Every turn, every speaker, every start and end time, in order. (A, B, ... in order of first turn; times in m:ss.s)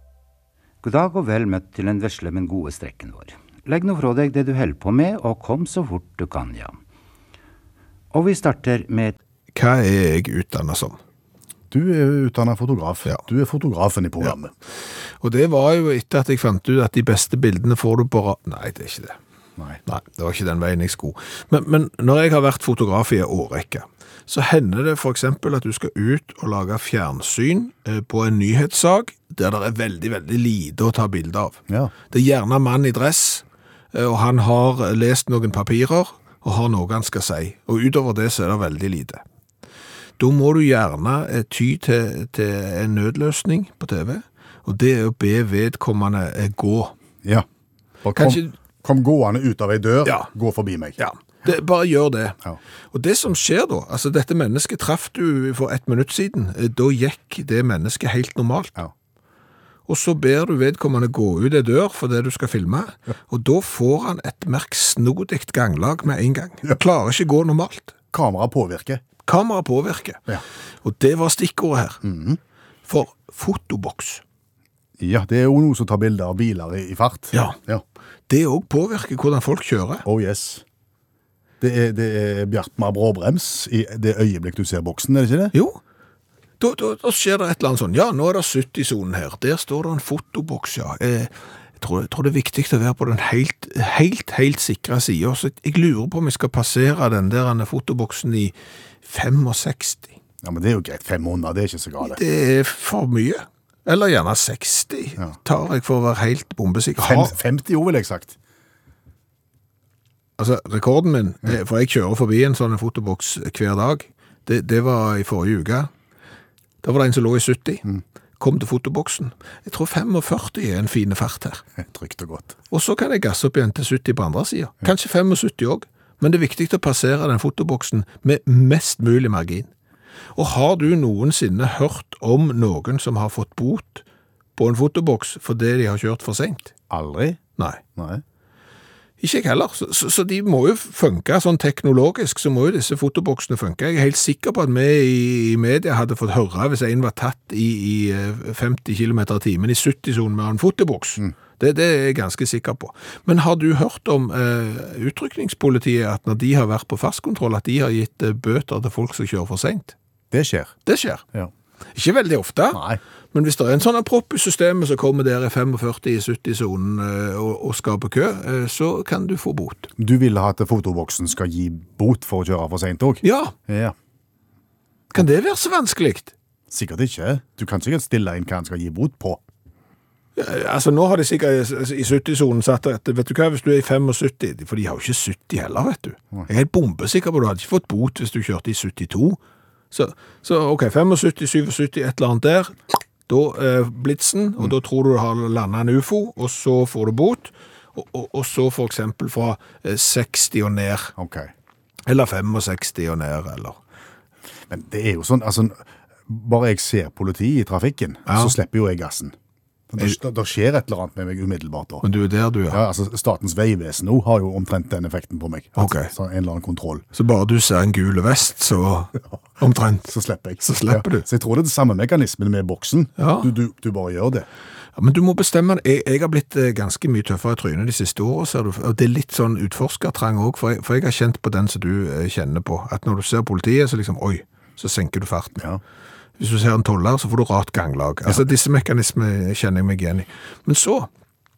0:00.8-0:06.8 A
0:08.1-0:09.2 A
0:09.5-0:11.0 B
0:11.7-0:14.5 C
0:15.2-0:19.2 B
0:19.9-0:31.6 B
0:32.1-0:39.2 B
0:40.2-0:46.9 B
0:48.0-0:51.0 C
0:48.2-0:48.5 B
0:51.0-0:52.4 B
0:52.9-0:58.8 B
0:59.9-1:08.0 B
1:08.1-1:09.0 C
1:09.3-1:10.3 B
1:10.8-1:12.0 B
1:12.0-1:12.4 C
1:12.9-1:14.2 B
1:15.0-1:17.8 C
1:18.3-1:20.0 B
1:20.0-1:20.6 C
1:21.6-1:25.5 C
1:25.5-1:25.8 B
1:26.6-1:38.5 B
1:39.0-1:40.2 B
1:40.4-1:42.2 C
1:42.0-1:47.4 B
1:47.0-1:48.4 C
1:50.4-1:55.9 B
1:56.8-1:57.9 B
1:58.4-2:01.6 B
2:01.8-2:02.6 C
2:02.7-2:09.7 B
2:10.4-2:14.0 B
2:14.6-2:16.7 B
2:16.9-2:17.4 C
2:18.0-2:18.2 C
2:19.2-2:40.0 B
2:40.3-2:40.7 C
2:40.9-2:41.2 B
2:41.9-2:49.9 B
2:42.7-2:43.0 C
2:50.0-2:54.0 C
2:53.2-2:53.6 B
2:55.1-2:56.3 B
2:56.7-2:59.4 C
3:00.4-3:09.4 B
3:09.9-3:12.8 B
3:13.3-3:21.1 B
3:21.2-3:21.5 C
3:22.1-3:23.8 B
3:24.7-3:29.4 C
3:28.3-3:28.5 B
3:29.9-3:32.0 C
3:32.0-3:32.8 B
3:32.7-3:37.0 C
3:35.8-3:36.1 B
3:37.1-3:41.3 B
3:40.1-3:44.5 C
3:43.2-3:43.5 B
3:45.0-3:55.6 B
3:56.4-4:01.1 B